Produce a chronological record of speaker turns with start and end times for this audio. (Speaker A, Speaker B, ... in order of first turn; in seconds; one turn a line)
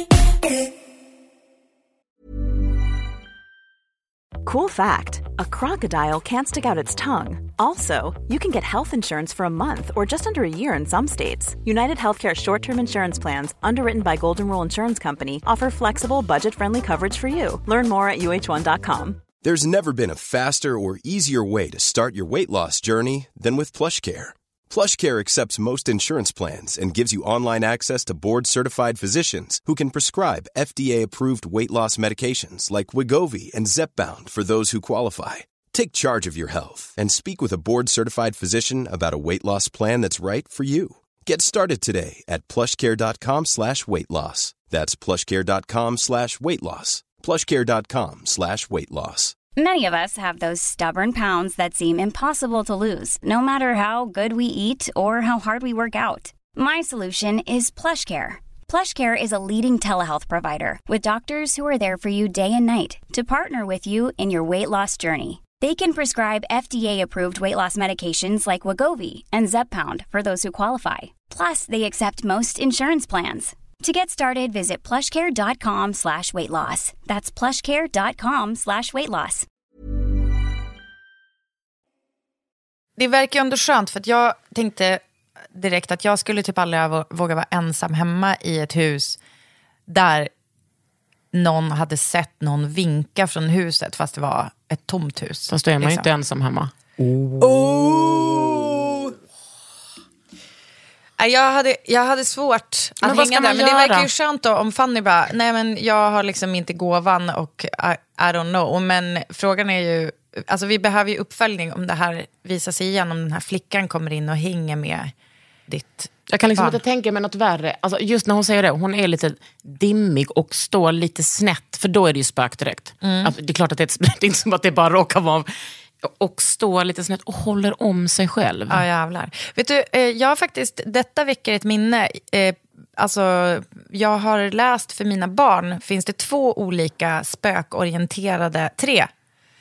Speaker A: 4.4-19.2
Speaker B: 19.4-49.4
Speaker C: 49.6-79.5
Speaker D: 83.0-85.0
Speaker D: 85.5-89.2
Speaker D: 89.9-90.3
Speaker D: 91.3-96.1
Speaker E: 95.5-97.9
Speaker D: 97.4-99.1
Speaker D: 101.2-115.1
Speaker E: 103.0-104.1
Speaker D: 115.7-116.8
Speaker E: 116.3-125.5
Speaker D: 123.0-123.3
Speaker E: 126.0-128.8
Speaker D: 128.7-139.1